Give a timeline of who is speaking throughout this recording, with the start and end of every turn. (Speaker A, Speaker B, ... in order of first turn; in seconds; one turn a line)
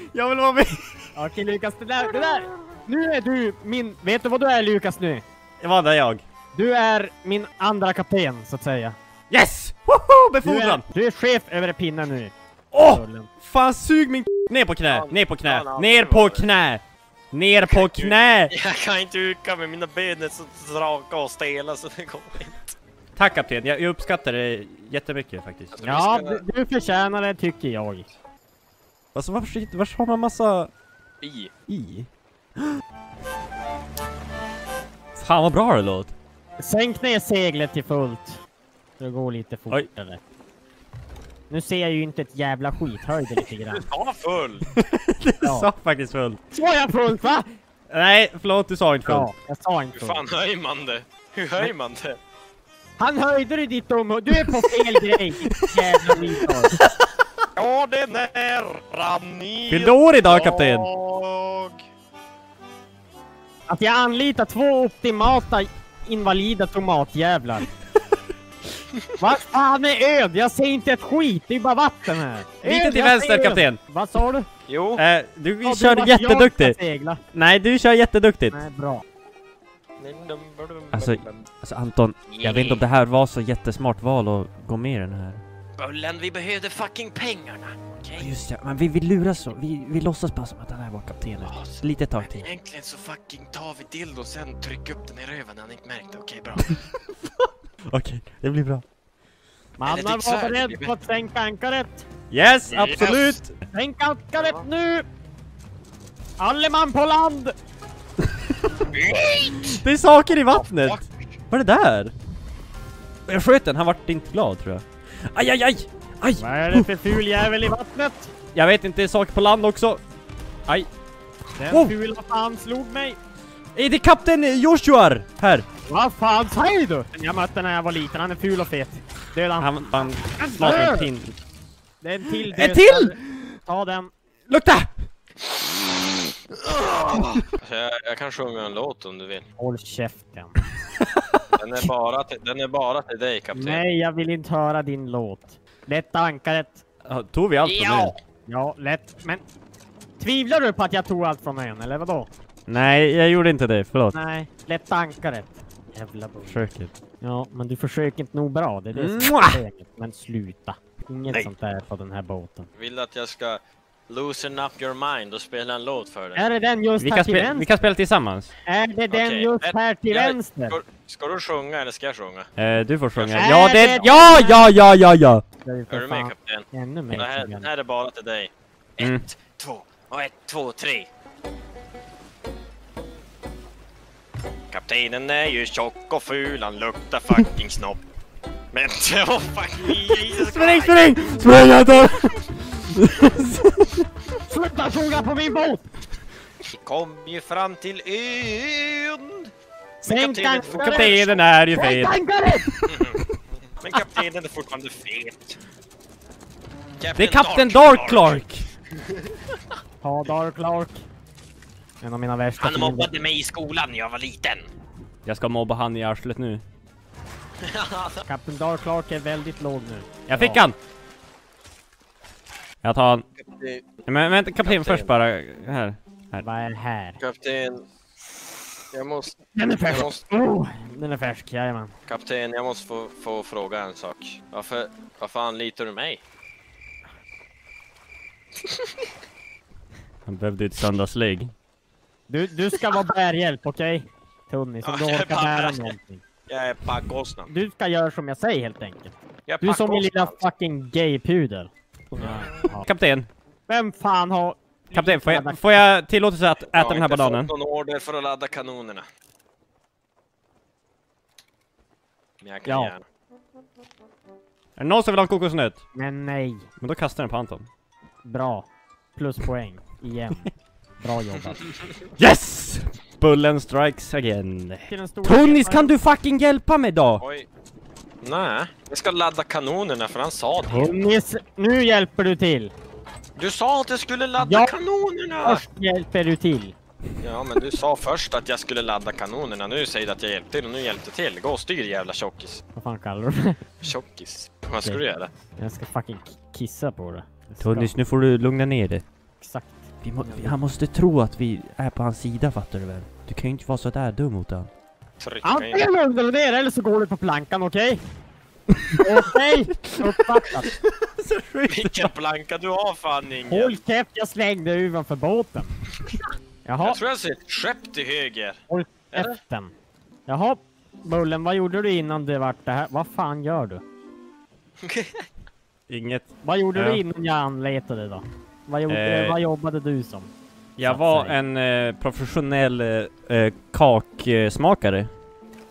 Speaker A: 0.1-0.9
Speaker B: 1.1-5.2
Speaker A: 5.6-6.2
Speaker B: 6.5-8.9
Speaker A: 9.3-10.8
Speaker B: 10.4-13.3
Speaker A: 12.7-18.5
Speaker C: 14.9-16.5
Speaker C: 17.7-22.6
Speaker A: 23.1-25.7
Speaker C: 25.7-26.4
Speaker B: 25.8-28.1
Speaker A: 29.1-30.7
Speaker C: 31.2-31.5
Speaker A: 31.7-32.1
Speaker A: 35.1-36.1
Speaker B: 36.6-38.4
Speaker B: 39.0-40.2
Speaker B: 41.5-43.8
Speaker C: 43.7-44.7
Speaker A: 44.8-46.4
Speaker B: 45.4-45.7
Speaker B: 46.5-47.5
Speaker A: 47.9-49.3
Speaker B: 49.0-50.2
Speaker C: 49.9-52.2
Speaker B: 53.0-56.8
Speaker A: 54.3-54.7
Speaker A: 55.5-56.9
Speaker C: 57.5-61.8
Speaker A: 59.7-60.9
Speaker B: 63.7-67.7
Speaker B: 69.2-74.5
Speaker A: 72.6-73.8
Speaker C: 74.7-75.0
Speaker A: 75.0-76.8
Speaker B: 75.6-77.2
Speaker A: 77.3-78.6
Speaker B: 78.5-79.0
Speaker C: 80.0-81.5
Speaker A: 80.9-85.4
Speaker C: 82.3-82.8
Speaker C: 85.8-88.3
Speaker A: 88.2-92.5
Speaker C: 91.5-96.7
Speaker A: 97.9-98.8
Speaker B: 99.8-102.0
Speaker C: 99.8-100.9
Speaker A: 102.3-103.5
Speaker C: 102.7-103.4
Speaker B: 103.7-105.0
Speaker C: 104.3-104.6
Speaker B: 106.4-107.5
Speaker C: 108.9-109.8
Speaker A: 109.7-112.1
Speaker C: 110.3-111.1
Speaker A: 113.3-116.9
Speaker B: 116.4-118.3
Speaker A: 118.5-120.0
Speaker B: 121.6-123.2
Speaker A: 123.7-125.7
Speaker B: 125.9-129.7
Speaker A: 129.6-131.3
Speaker B: 130.4-131.1
Speaker B: 132.0-134.1
Speaker A: 132.5-133.5
Speaker A: 134.5-134.9
Speaker A: 136.7-137.4
Speaker C: 137.6-139.4
Speaker B: 139.6-140.6
Speaker C: 141.6-143.8
Speaker B: 143.5-146.8
Speaker A: 147.1-148.1
Speaker C: 147.6-148.2
Speaker B: 148.5-149.4
Speaker B: 150.2-152.3
Speaker A: 152.7-154.1
Speaker B: 154.1-156.6
Speaker A: 156.4-156.9
Speaker B: 157.2-162.7
Speaker A: 158.9-159.6
Speaker C: 162.8-166.4
Speaker B: 166.3-167.7
Speaker A: 167.0-168.5
Speaker B: 168.7-170.8
Speaker C: 169.1-172.5
Speaker A: 172.6-175.4
Speaker C: 173.2-174.3
Speaker B: 173.4-174.7
Speaker B: 175.6-177.7
Speaker C: 175.9-181.1
Speaker C: 184.7-188.0
Speaker C: 188.7-191.1
Speaker A: 190.1-194.0
Speaker B: 194.5-195.8
Speaker C: 196.7-199.5
Speaker B: 200.0-202.7
Speaker C: 200.0-201.5
Speaker A: 200.7-203.2
Speaker C: 202.8-203.2
Speaker C: 203.8-205.6
Speaker C: 207.0-208.4
Speaker A: 207.2-208.7
Speaker B: 210.0-211.0
Speaker B: 212.0-213.2
Speaker C: 212.6-214.7
Speaker A: 215.2-216.6
Speaker C: 217.6-218.2
Speaker B: 218.2-220.6
Speaker A: 220.3-220.8
Speaker A: 222.8-223.2
Speaker C: 223.4-223.8
Speaker A: 224.1-226.4
Speaker C: 224.6-225.1
Speaker B: 226.4-227.2
Speaker C: 227.2-227.8
Speaker C: 228.9-230.2
Speaker B: 229.5-231.9
Speaker C: 232.1-236.2
Speaker A: 240.2-241.5
Speaker B: 242.3-246.2
Speaker C: 244.8-245.9
Speaker C: 246.5-247.5
Speaker B: 247.5-252.9
Speaker C: 249.5-250.4
Speaker C: 252.2-252.7
Speaker A: 252.8-253.3
Speaker B: 253.7-255.8
Speaker A: 254.9-257.5
Speaker C: 256.7-259.1
Speaker C: 262.4-263.0
Speaker B: 262.6-262.9
Speaker A: 264.8-265.8
Speaker B: 265.9-266.7
Speaker A: 266.8-267.7
Speaker B: 268.2-271.6
Speaker C: 271.6-271.9
Speaker A: 272.2-277.2
Speaker B: 274.9-275.9
Speaker C: 277.2-277.5
Speaker C: 278.2-280.9
Speaker B: 280.7-282.7
Speaker C: 283.4-285.6
Speaker B: 284.4-284.7
Speaker B: 285.4-286.7
Speaker C: 287.2-292.6
Speaker B: 292.7-293.6
Speaker C: 293.8-295.3
Speaker B: 295.6-297.9
Speaker A: 297.6-299.0
Speaker B: 299.4-300.6
Speaker A: 300.0-304.7
Speaker C: 305.2-305.9
Speaker B: 305.4-308.0
Speaker A: 308.7-309.0
Speaker B: 309.0-310.7
Speaker A: 309.9-312.1
Speaker C: 311.7-313.8
Speaker B: 313.5-315.7
Speaker B: 316.6-317.0
Speaker C: 316.8-318.6
Speaker B: 318.7-319.7
Speaker C: 319.1-319.4
Speaker B: 320.3-323.8
Speaker C: 324.8-325.2
Speaker A: 325.9-327.0
Speaker B: 326.4-330.3
Speaker A: 328.9-329.4
Speaker A: 330.8-335.1
Speaker B: 330.8-331.4